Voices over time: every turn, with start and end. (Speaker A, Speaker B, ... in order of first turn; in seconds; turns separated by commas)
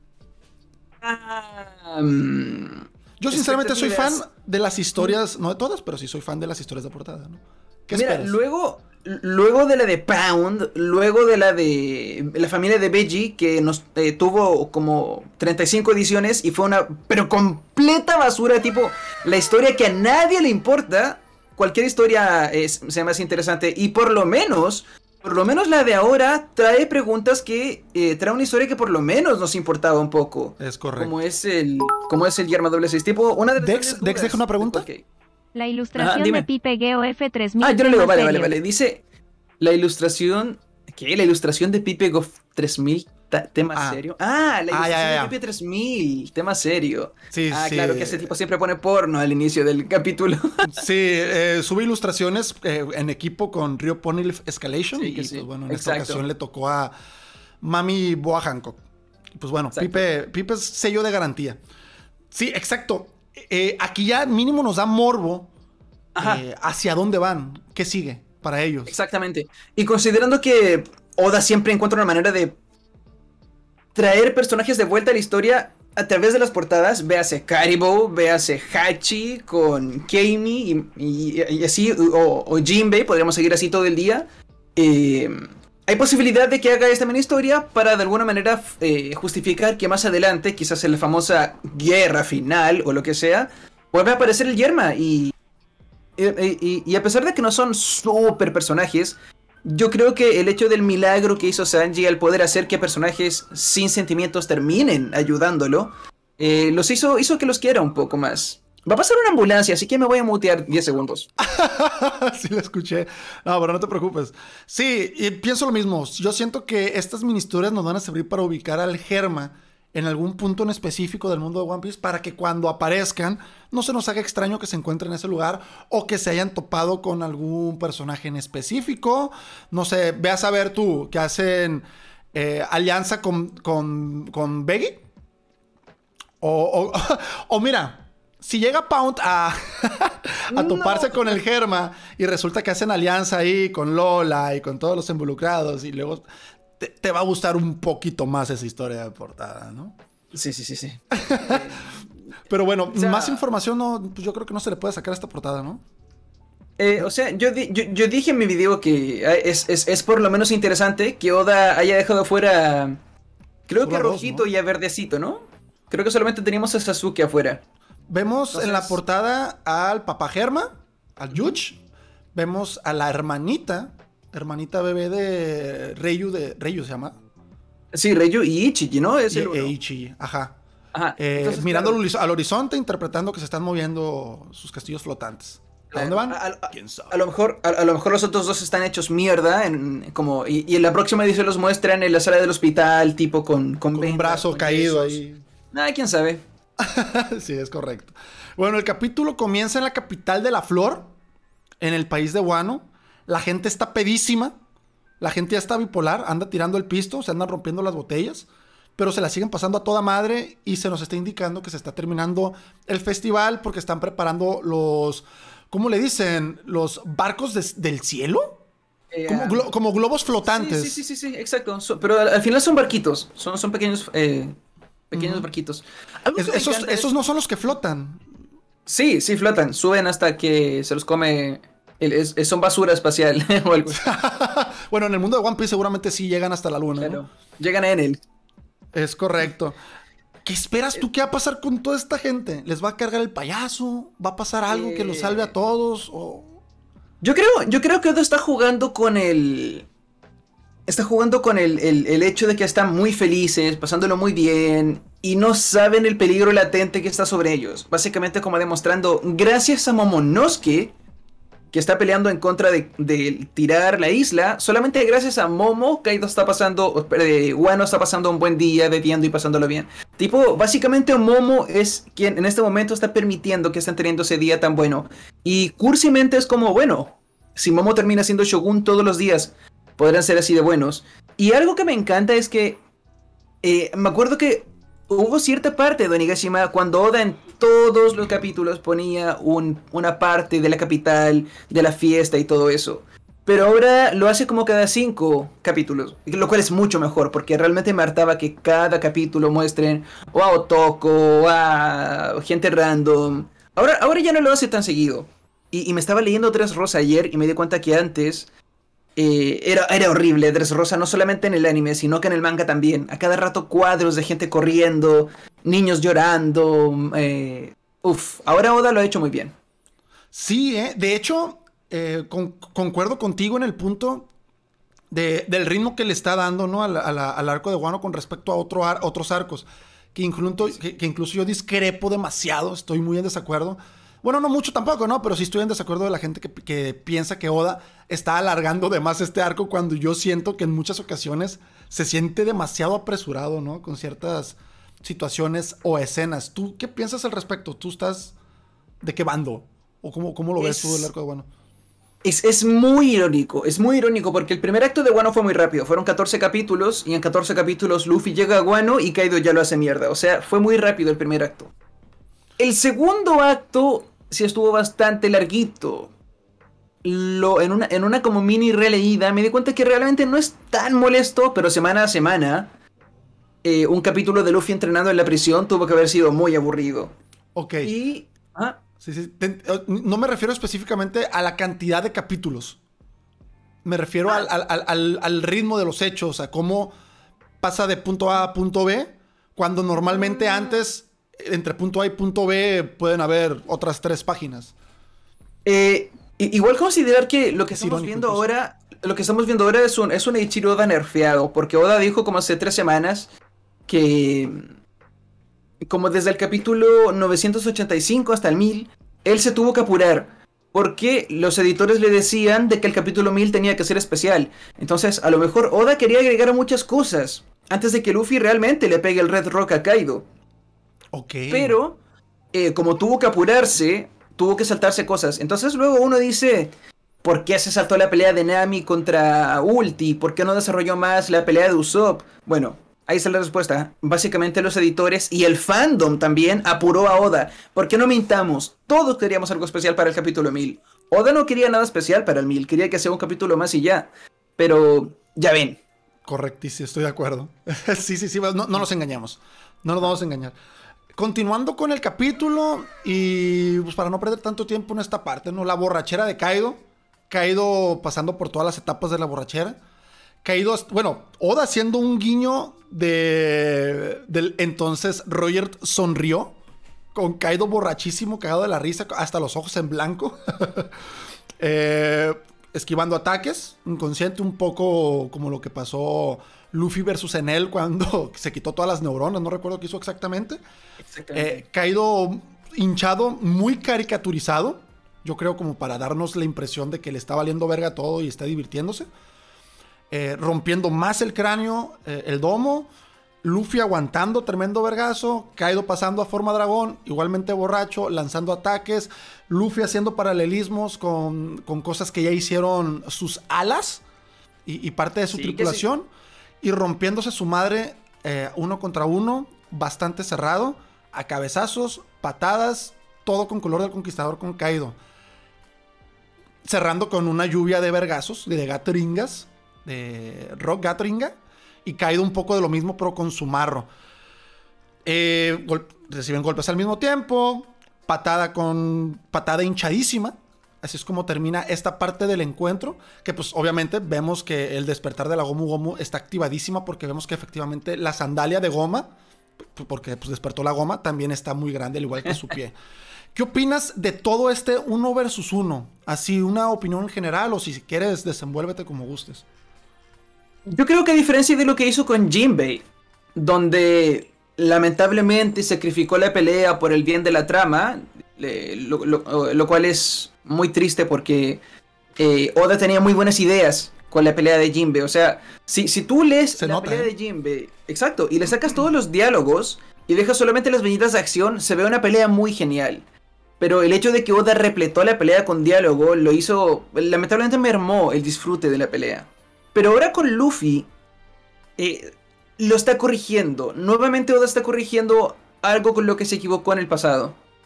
Speaker A: 1.0-4.2, Speaker B: 3.2-8.4, Speaker A: 7.9-35.0, Speaker B: 30.6-31.1, Speaker B: 33.6-34.9, Speaker C: 35.5-38.5, Speaker A: 36.0-36.5, Speaker A: 37.6-39.0, Speaker A: 39.6-50.8, Speaker B: 43.7-44.0, Speaker B: 44.7-45.4, Speaker B: 47.3-48.3, Speaker B: 50.6-56.9, Speaker A: 55.0-56.2, Speaker B: 57.6-58.8, Speaker B: 59.4-61.6, Speaker A: 59.7-60.1, Speaker B: 62.3-65.5, Speaker A: 66.2-66.4, Speaker B: 66.2-69.0, Speaker A: 68.9-72.6, Speaker A: 74.0-95.3, Speaker A: 96.2-111.3, Speaker B: 111.4-135.0, Speaker B: 136.4-146.2, Speaker A: 140.5-141.4, Speaker B: 146.8-150.0, Speaker A: 150.3-152.1, Speaker B: 151.1-151.7, Speaker B: 152.5-155.8, Speaker A: 152.9-153.4, Speaker A: 156.8-163.0, Speaker A: 163.7-167.6, Speaker B: 163.8-164.5, Speaker B: 168.1-171.8, Speaker A: 168.5-169.0, Speaker B: 172.3-177.2, Speaker A: 177.9-179.7, Speaker B: 179.3-180.6, Speaker A: 180.9-182.0, Speaker B: 181.2-187.2, Speaker A: 185.9-196.4, Speaker B: 193.9-195.4, Speaker B: 196.8-201.1, Speaker B: 201.8-204.6, Speaker B: 205.2-218.6, Speaker A: 219.1-219.7, Speaker B: 219.3-221.0, Speaker A: 220.4-224.6, Speaker A: 225.1-227.1, Speaker B: 225.2-225.4, Speaker B: 226.3-228.2, Speaker A: 228.9-234.0, Speaker B: 233.9-237.2, Speaker A: 237.0-238.2, Speaker B: 238.9-239.8, Speaker B: 240.4-246.6, Speaker A: 244.7-245.5, Speaker A: 247.2-249.9, Speaker A: 250.9-260.9, Speaker A: 261.7-282.8, Speaker A: 283.6-308.5, Speaker A: 309.2-319.6, Speaker B: 320.3-324.3, Speaker B: 325.1-348.4, Speaker B: 349.0-351.5, Speaker A: 350.6-351.1, Speaker A: 352.2-361.7, Speaker A: 362.6-366.1, Speaker A: 367.0-372.7, Speaker A: 373.6-377.2, Speaker B: 377.6-377.9, Speaker A: 377.8-378.8, Speaker B: 379.0-382.8, Speaker B: 383.8-386.9, Speaker B: 387.6-394.8, Speaker A: 395.6-403.3, Speaker B: 397.7-398.5, Speaker A: 403.9-404.7, Speaker A: 405.8-420.3, Speaker B: 421.1-421.8, Speaker A: 421.5-422.0, Speaker A: 422.5-426.7, Speaker A: 427.2-445.8, Speaker B: 446.2-450.5, Speaker B: 451.2-459.8, Speaker B: 460.4-466.6, Speaker B: 467.1-470.9, Speaker B: 471.6-480.6, Speaker A: 481.0-481.6, Speaker B: 481.3-489.1, Speaker B: 490.1-492.9, Speaker B: 493.4-504.0, Speaker B: 504.7-506.1, Speaker A: 505.3-505.8, Speaker B: 506.6-515.0, Speaker B: 516.6-523.9, Speaker B: 525.1-539.1, Speaker B: 539.7-542.8, Speaker B: 543.3-549.5, Speaker A: 550.7-552.8, Speaker A: 553.4-561.6, Speaker A: 562.2-573.0, Speaker B: 566.6-567.1, Speaker A: 573.6-580.9, Speaker A: 581.8-587.4